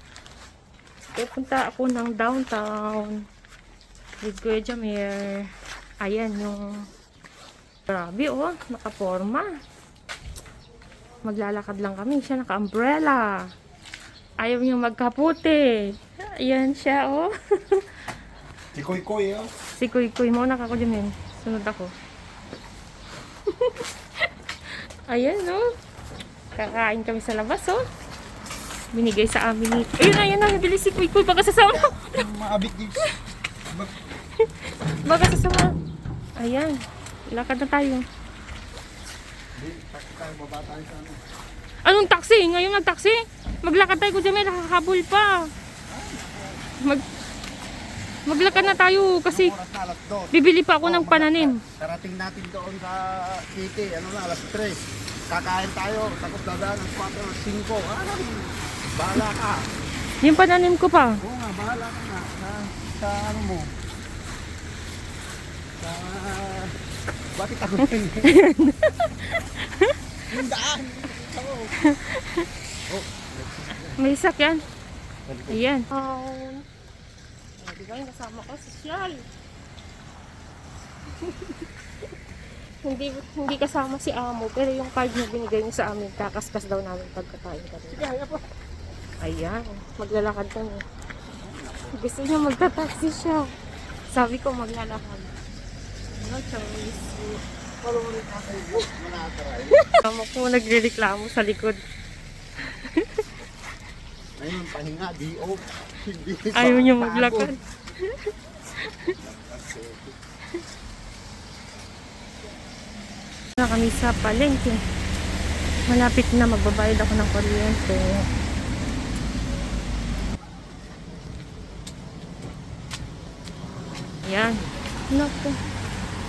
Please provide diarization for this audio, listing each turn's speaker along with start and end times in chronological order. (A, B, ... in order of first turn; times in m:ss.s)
0:01.1-0:03.2 A
0:04.2-0:05.5 A
0:06.0-0:06.8 A
0:07.9-0:09.5 A
0:11.2-0:13.5 A
0:14.4-0:17.8 A
0:18.7-0:19.5 B
0:19.7-0:21.9 A
0:23.5-0:23.9 A
0:25.1-0:25.6 A
0:26.5-0:27.8 A
0:28.9-0:32.2 A
0:32.0-0:33.1 B
0:34.4-0:35.7 A
0:36.4-0:36.8 A
0:37.3-0:38.0 A
0:39.5-0:41.2 B
0:41.8-0:45.5 A
0:45.9-0:46.6 B
0:48.3-0:49.5 A
0:48.4-0:59.7 B
0:50.3-0:51.6 A
1:00.2-1:01.2 A
1:01.2-1:03.7 B
1:05.8-1:06.7 B
1:07.3-1:08.3 B
1:08.2-1:10.0 A
1:10.3-1:11.7 B
1:11.8-1:12.5 A
1:12.9-1:14.0 B
1:14.0-1:14.6 A
1:15.3-1:15.6 B
1:15.5-1:16.6 A
1:17.6-1:19.2 A
1:21.0-1:21.6 A
1:22.8-1:28.1 A
1:27.9-1:28.4 B
1:29.2-1:30.8 A
1:31.4-1:32.0 B
1:31.9-1:33.5 A
1:34.1-1:35.3 A
1:36.2-1:37.4 A
1:37.8-1:39.8 B
1:39.8-1:41.8 A
1:42.7-1:43.2 A
1:44.4-1:47.5 B
1:46.5-1:49.2 A
1:49.2-1:50.1 B
1:53.6-1:54.8 A
1:55.9-1:58.2 A
2:04.2-2:05.6 A